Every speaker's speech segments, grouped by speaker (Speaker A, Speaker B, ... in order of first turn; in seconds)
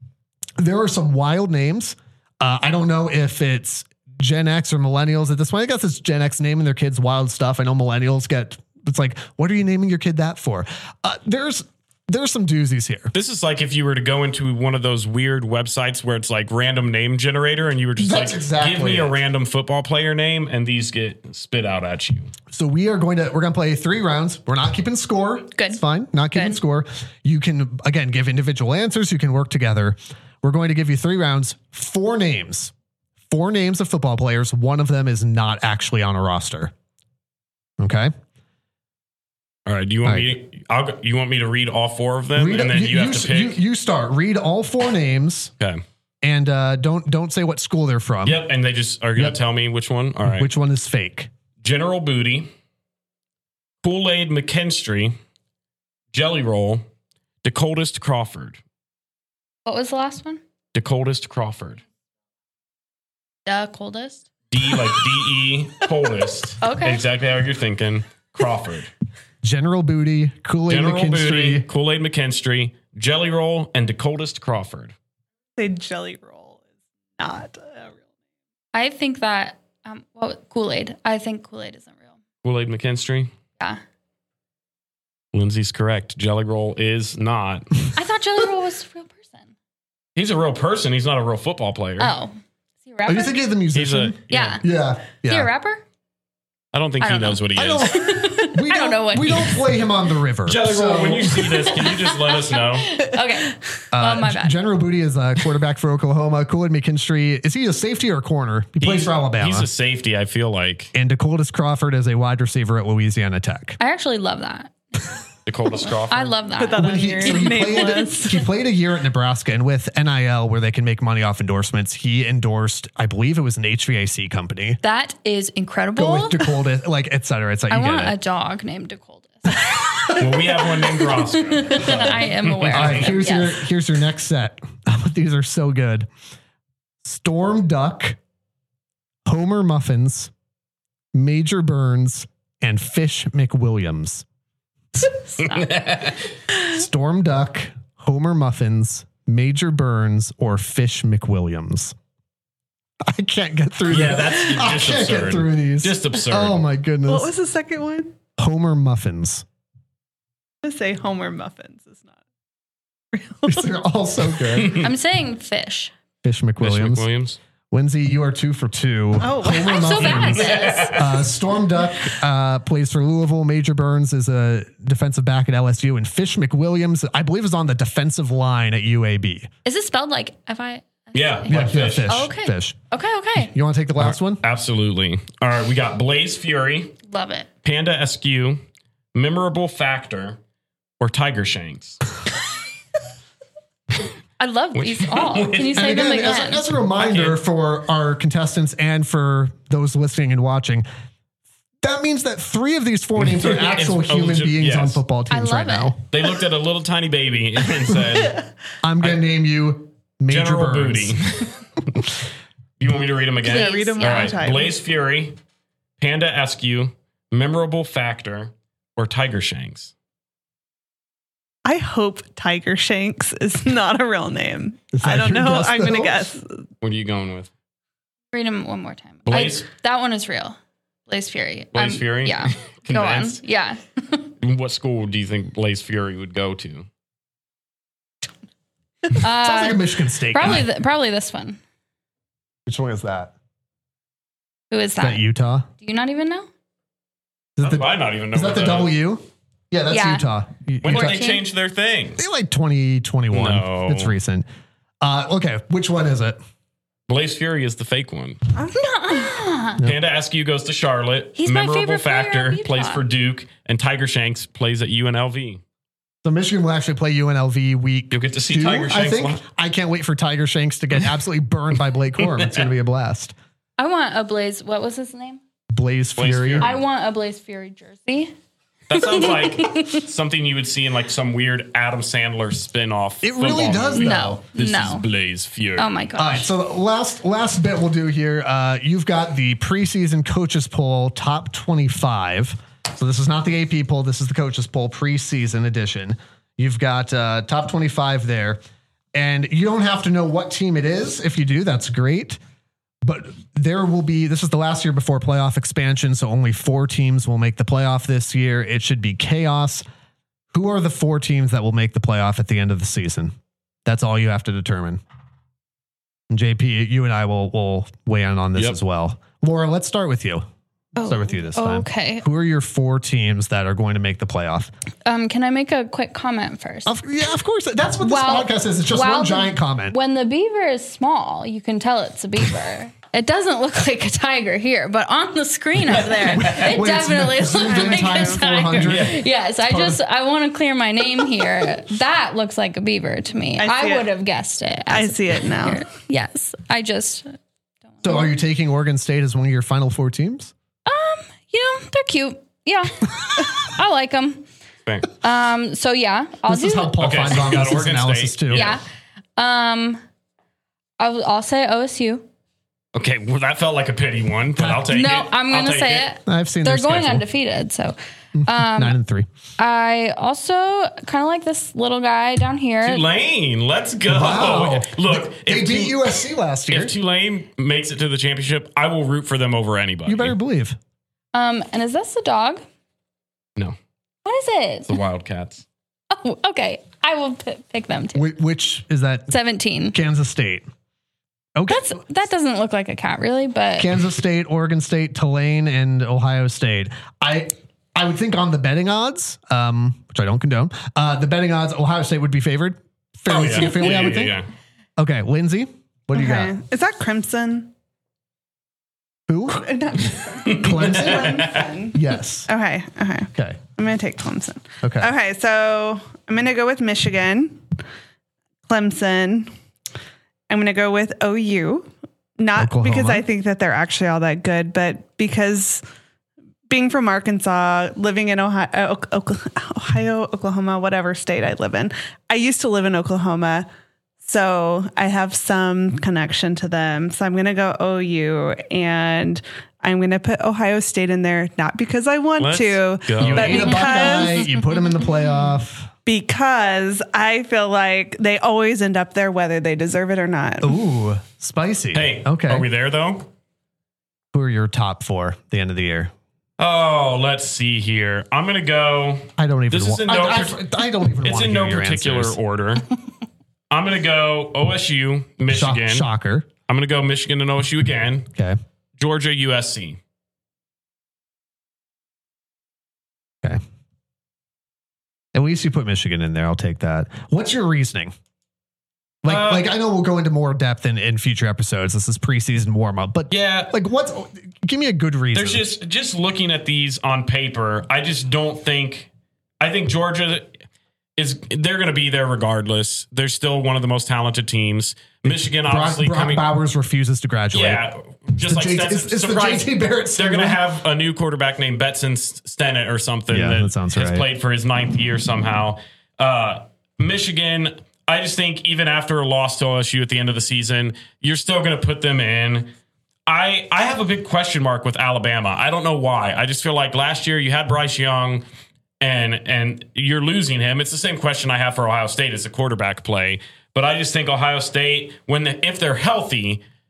Speaker A: 0.6-13.1, 18.0-19.2, 22.5-32.7, 33.3-36.7, 37.8-38.1, 40.0-40.3, 42.3-45.5, 46.2-48.4, 50.2-51.3, 69.4-71.7, 93.0-95.5, 97.5-101.5, 103.9-109.7, 110.9-113.8, 116.8-124.8, 126.0-128.1, 129.6-130.2, 131.8-132.1, 132.7-136.1, 137.0-138.2, 139.2-140.3, 141.1-144.2, 146.7-151.9, 153.0-157.3, 158.4-159.4, 163.4-164.9, 166.2-167.1, 167.7-179.5, 181.5-182.8, 183.3-184.4, 195.7-200.8, 201.8-206.0, 208.8-211.2, 224.9-226.3, 239.2-240.6, 242.7-243.3, 245.0-245.7, 247.6-251.3, 252.2-254.4, 255.0-256.4, 266.2-273.3, 275.7-276.8, 283.2-284.4, 286.1-298.6, 299.1-302.4, 303.0-309.8, 310.5-313.3, 313.9-315.0, 316.3-320.4, 321.0-324.7, 326.9-329.9, 336.4-340.0, 348.0-350.5, 356.5-358.8, 364.6-365.0, 366.2-367.2, 368.4-369.3, 374.1-376.9, 380.1-380.8, 388.1-389.3, 389.9-390.6, 391.6-392.0, 393.8-404.4, 405.0-406.5, 409.3-409.7, 410.5-412.5, 413.3-413.6, 414.8-415.1, 422.6-423.2, 443.2-445.9, 450.6-452.7, 454.3-456.1, 459.4-462.4, 465.5-466.5, 475.3-478.1, 479.2-485.7, 495.2-497.9, 498.4-500.6, 503.3-504.3
Speaker B: 13.1-22.3, 39.6-43.6, 48.2-50.5, 51.6-52.5, 53.8-55.1, 56.1-56.8, 57.4-58.6, 60.7-61.8, 64.5-68.9, 70.7-74.9, 82.4-83.3, 85.3-87.7, 90.2-92.1, 93.7-94.6, 96.7-97.9, 100.5-103.0, 108.8-110.9, 115.5-116.3, 130.2-133.1, 145.4-146.2, 153.9-156.6, 164.6-164.8, 166.6-167.4, 170.0-171.1, 181.1-182.2, 184.0-186.9, 187.6-188.6, 189.1-190.4, 191.0-192.0, 194.7-195.9, 196.9-197.4, 203.2-205.0, 206.1-208.4, 210.3-211.5, 212.8-215.3, 216.0-219.9, 226.8-227.5, 229.2-229.6, 231.7-233.4, 234.4-236.8, 247.6-248.9, 250.8-252.2, 253.3-254.1, 257.1-258.4, 259.8-265.6, 268.1-269.4, 272.3-272.6, 276.2-276.7, 278.9-285.9, 336.1-336.7, 338.8-339.2, 357.0-358.8, 362.9-366.1, 372.8-376.2, 376.7-380.3, 384.9-385.6, 403.3-404.5, 410.4-411.6, 442.4-443.9, 451.9-453.3, 456.6-460.6, 461.2-462.9, 463.7-466.1, 466.7-468.3, 469.0-470.0, 479.2-479.6, 483.3-483.7, 485.3-489.1, 489.6-490.5, 491.2-496.4, 497.5-512.7, 513.3-518.4, 519.0-526.6
Speaker C: 25.6-25.8, 26.3-26.6, 59.6-60.4, 63.5-64.2, 66.6-67.0, 78.7-82.1, 88.0-89.5, 92.0-93.4, 94.3-94.6, 95.2-95.8, 97.0-99.6, 101.7-104.6, 113.8-114.7, 116.1-118.2, 124.8-126.5, 127.7-130.2, 131.1-133.6, 145.4-145.7, 164.7-165.9, 169.4-171.0, 179.6-183.5, 187.1-187.5, 194.4-196.7, 205.3-205.9, 213.4-214.4, 228.3-230.6, 231.1-234.3, 239.1-241.6, 244.7-245.2, 245.8-246.5, 249.9-250.3, 250.9-251.4, 258.7-259.8, 261.4-263.0, 273.8-275.4, 276.6-278.3, 279.0-280.0, 283.9-285.1, 285.8-286.5, 321.0-322.2, 325.1-326.9, 328.0-347.4, 347.9-348.3, 350.9-354.4, 355.2-357.0, 358.5-358.8, 359.4-360.0, 361.0-362.2, 364.9-369.0, 369.6-373.0, 381.3-382.6, 384.2-384.9, 386.1-388.3, 389.3-390.0, 391.7-393.9
Speaker D: 75.6-76.6, 77.2-77.9, 116.6-118.4, 157.1-158.2, 160.6-162.1, 163.1-163.7, 169.2-170.3, 213.4-214.8, 221.6-226.5, 258.5-259.3, 337.6-338.4, 343.6-344.1, 344.9-345.8, 406.1-407.7, 409.5-417.6, 418.7-419.5, 420.5-425.8, 426.7-433.7, 434.2-444.5, 446.1-450.7